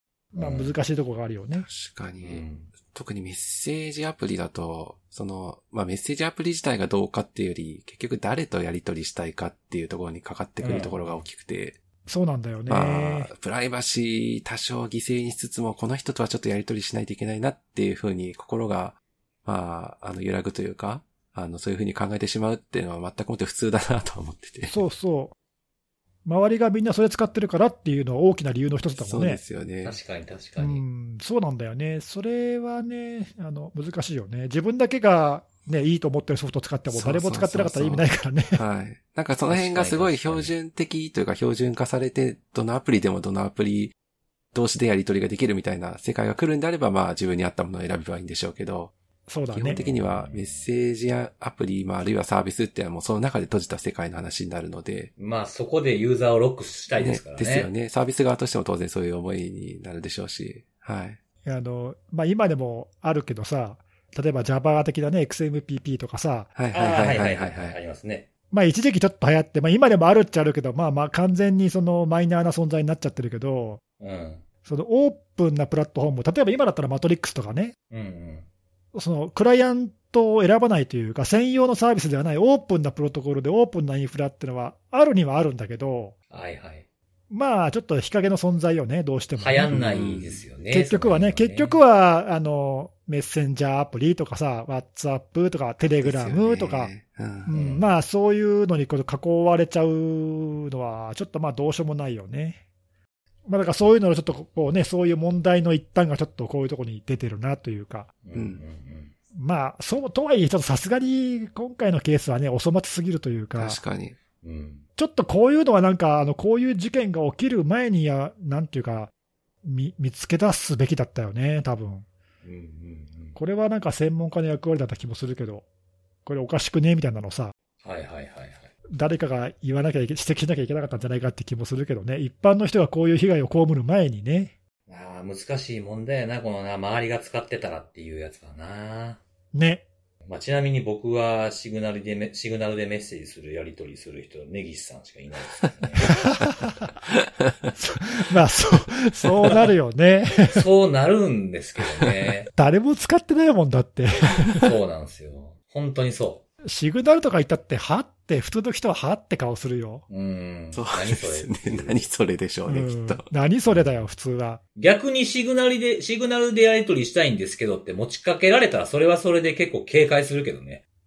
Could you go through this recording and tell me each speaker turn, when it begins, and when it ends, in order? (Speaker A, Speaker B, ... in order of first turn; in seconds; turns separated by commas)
Speaker A: 0.3-1.6, Speaker B: 0.3-0.7, Speaker C: 1.6-11.8, Speaker B: 2.2-2.7, Speaker A: 10.6-10.9, Speaker B: 10.6-11.0, Speaker A: 12.1-13.3, Speaker C: 12.7-24.8, Speaker A: 24.7-25.3, Speaker A: 26.2-29.4, Speaker C: 28.9-30.0, Speaker B: 29.8-30.8, Speaker A: 30.6-38.6, Speaker C: 36.9-43.9, Speaker B: 39.5-40.5, Speaker C: 44.5-48.9, Speaker A: 49.3-49.8, Speaker C: 49.5-55.1, Speaker B: 49.7-50.7, Speaker B: 55.2-57.7, Speaker C: 56.9-61.2, Speaker A: 61.4-66.5, Speaker C: 66.5-67.8, Speaker B: 66.7-68.3, Speaker A: 68.5-73.8, Speaker B: 74.0-74.4, Speaker A: 74.6-77.7, Speaker B: 77.9-78.5, Speaker A: 78.9-86.1, Speaker B: 86.3-86.8, Speaker A: 87.3-89.8, Speaker B: 89.4-91.8, Speaker C: 89.7-90.4, Speaker A: 90.7-96.9, Speaker C: 96.0-97.5, Speaker A: 97.5-102.6, Speaker B: 97.5-97.8, Speaker A: 103.5-108.1, Speaker B: 108.2-109.1, Speaker C: 108.3-108.6, Speaker A: 109.3-113.8, Speaker C: 113.5-114.2, Speaker B: 114.4-114.8, Speaker A: 115.0-119.1, Speaker A: 119.6-122.0, Speaker B: 122.4-123.4, Speaker A: 123.3-125.7, Speaker A: 126.2-127.5, Speaker B: 127.8-128.7, Speaker A: 128.9-134.5, Speaker B: 134.9-139.2, Speaker A: 139.5-139.8, Speaker B: 140.3-146.2, Speaker A: 146.3-146.9, Speaker A: 147.8-150.7, Speaker B: 150.5-152.5, Speaker A: 152.5-154.7, Speaker B: 154.6-156.4, Speaker A: 156.6-160.0, Speaker B: 160.1-162.1, Speaker C: 160.7-163.3, Speaker A: 162.7-164.6, Speaker B: 164.8-170.8